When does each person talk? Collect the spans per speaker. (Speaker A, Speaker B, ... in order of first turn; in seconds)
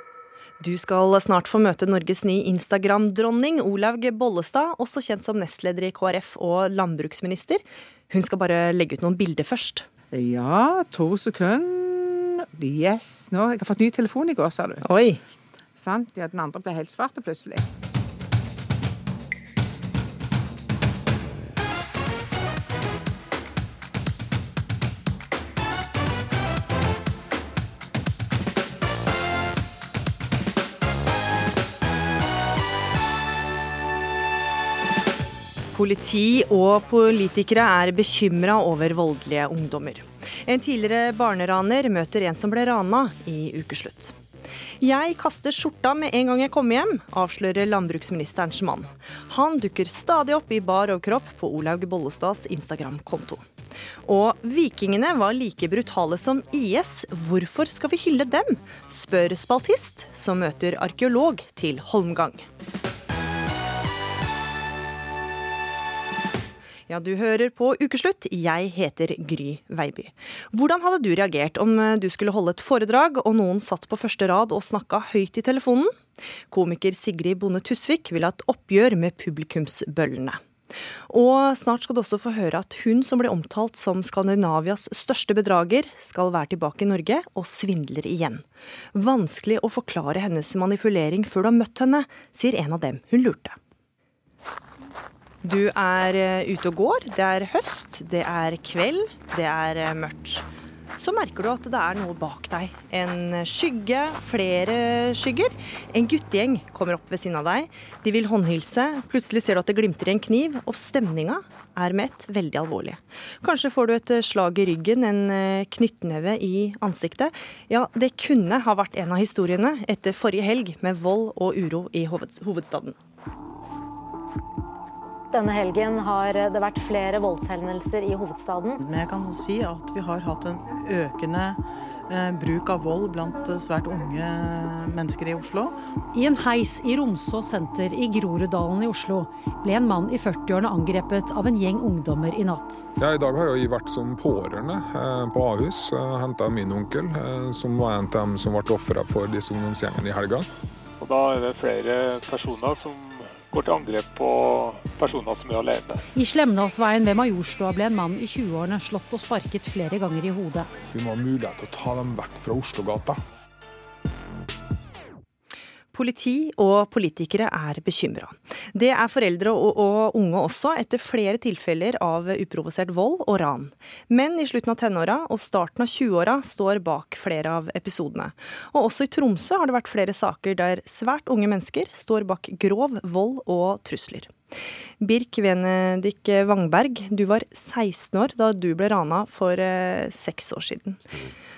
Speaker A: 0.6-9.8, 14.8-15.2, 35.7-44.1, 44.8-53.5, 54.0-62.5, 66.9-80.4, 81.1-93.6, 95.4-100.4, 101.0-122.9, 165.9-184.3, 185.0-191.0
Speaker B: 10.1-14.8, 15.8-17.6
Speaker C: 125.3-128.8
Speaker D: 128.8-135.8
Speaker E: 136.1-142.8, 156.1-160.7
Speaker F: 143.0-150.5, 160.9-163.2
Speaker G: 151.0-156.1